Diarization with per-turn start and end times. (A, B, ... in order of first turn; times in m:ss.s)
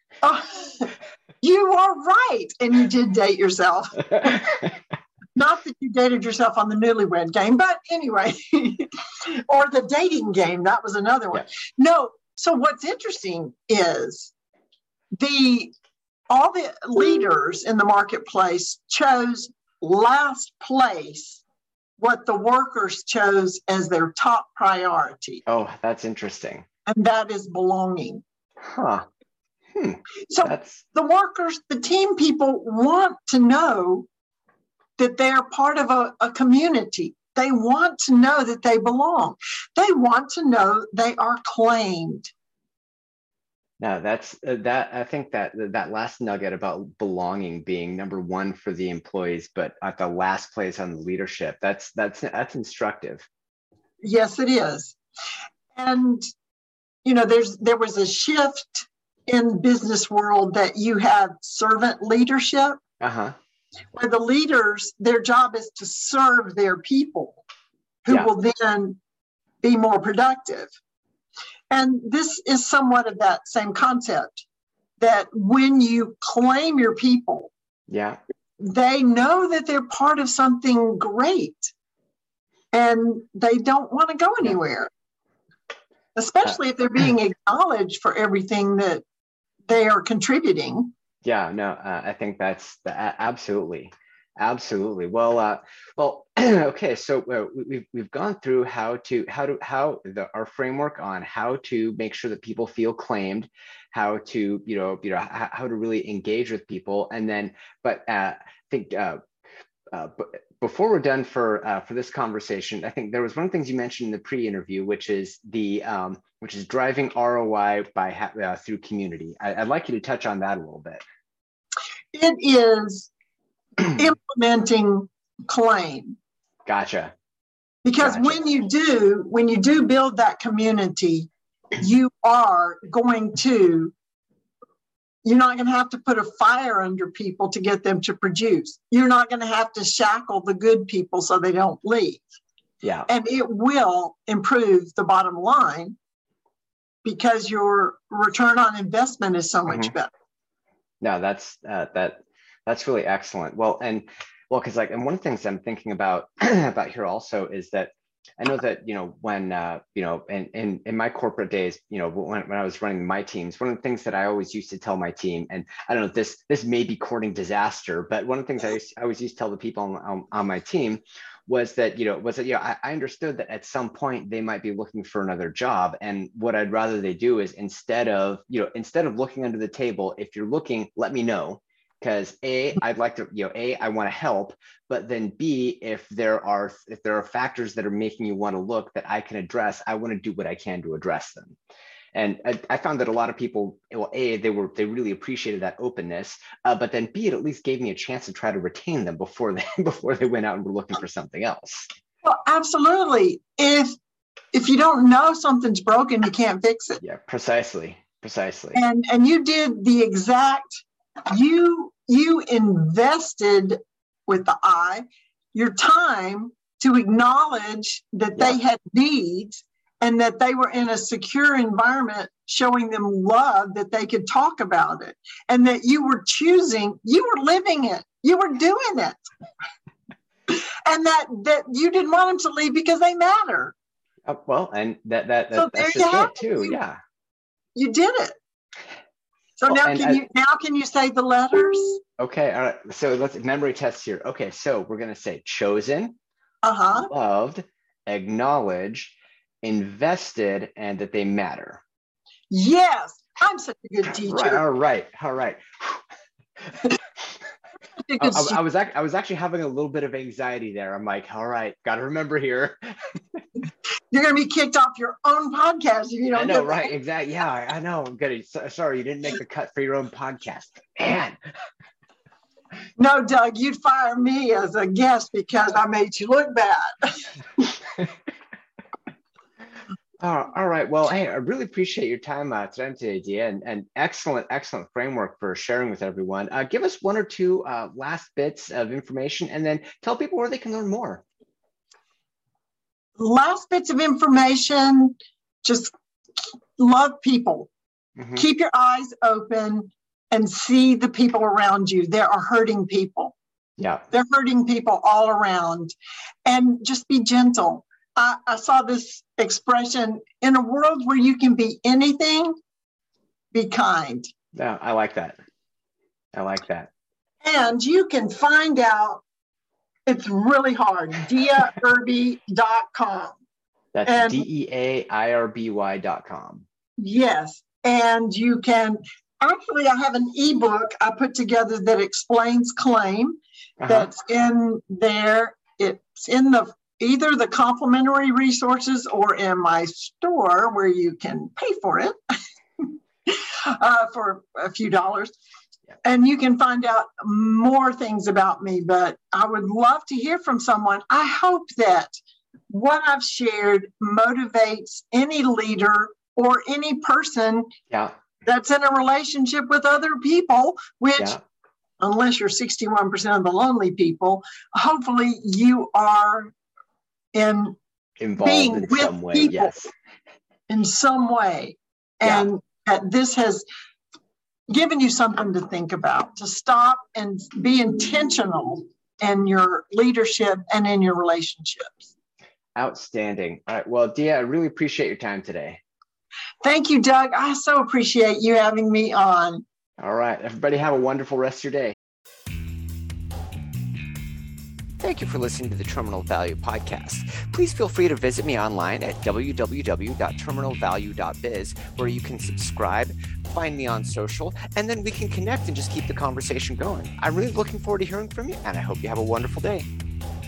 0:00.2-0:04.5 A
0:05.4-0:14.3 A
0:15.2-0:15.7 A
0:16.3-0:21.4 A
0:22.0-0:25.4 A
0:25.5-0:26.6 B
0:26.9-0:28.2 A
0:28.6-0:29.1 B
0:29.7-0:30.8 B
0:30.3-0:34.1 A
0:35.0-0:42.3 A
0:43.8-0:53.3 B
0:54.0-0:55.0 A
0:55.8-0:56.2 A
0:57.0-1:02.8 A
1:03.0-1:03.4 B
1:03.9-1:07.4 A
1:08.0-1:09.0 A
1:09.6-1:10.7 A
1:11.7-1:14.4 A
1:15.0-1:17.5 A
1:17.9-1:18.2 B
1:18.6-1:21.7 A
1:22.7-1:24.9 A
1:26.2-1:29.0 A
1:29.7-1:30.9 A
1:31.2-1:49.2 B
1:49.9-2:01.0 B
2:02.1-2:03.1 A
2:03.9-2:06.2 A
2:06.7-2:07.1 B
2:07.8-2:13.9 A
2:08.0-2:08.4 B
2:15.2-2:22.2 A
2:22.8-2:23.1 B
2:23.1-2:26.0 A
2:27.0-2:30.1 A
2:29.7-2:29.9 B
2:31.0-3:11.6 B
3:12.1-3:21.9 B
3:22.2-3:24.0 A
3:24.5-3:27.0 A
3:27.0-3:28.8 B
3:28.7-3:49.2 A
3:50.5-3:53.7 A
3:54.3-3:57.0 B
3:55.6-3:56.8 A
3:57.8-3:58.4 A
3:59.6-4:02.0 A
3:59.7-4:00.2 B
4:02.2-4:06.2 B
4:06.6-4:07.1 A
4:07.0-4:11.8 B
4:12.5-4:14.6 A
4:14.1-4:16.0 B
4:18.0-4:18.6 A
4:18.2-4:23.4 B
4:24.1-4:26.9 A
4:26.3-4:31.4 B
4:33.0-4:37.4 A
4:40.2-4:51.2 B
4:53.2-4:57.7 A
4:58.2-4:58.4 B
4:58.4-5:03.4 A
5:03.8-5:04.0 B
5:04.1-5:05.9 A
5:06.4-5:12.6 A
5:13.5-5:14.3 A
5:14.5-5:15.4 B
5:16.3-5:16.9 B
5:17.4-5:19.2 A
5:20.1-5:23.4 A
5:23.9-5:26.6 B
5:24.1-5:24.5 A
5:27.0-5:42.2 A
5:33.8-5:34.1 B
5:42.8-5:45.4 A
5:46.0-5:52.2 A
5:52.7-5:57.7 A
5:58.4-6:01.4 A
6:02.0-6:06.5 A
6:07.3-6:07.8 A
6:08.2-6:09.9 B
6:08.4-6:09.8 A
6:10.7-6:13.6 A
6:14.7-6:22.1 A
6:22.8-6:25.8 B
6:26.6-6:29.6 A
6:30.0-6:32.0 B
6:35.0-6:49.9 B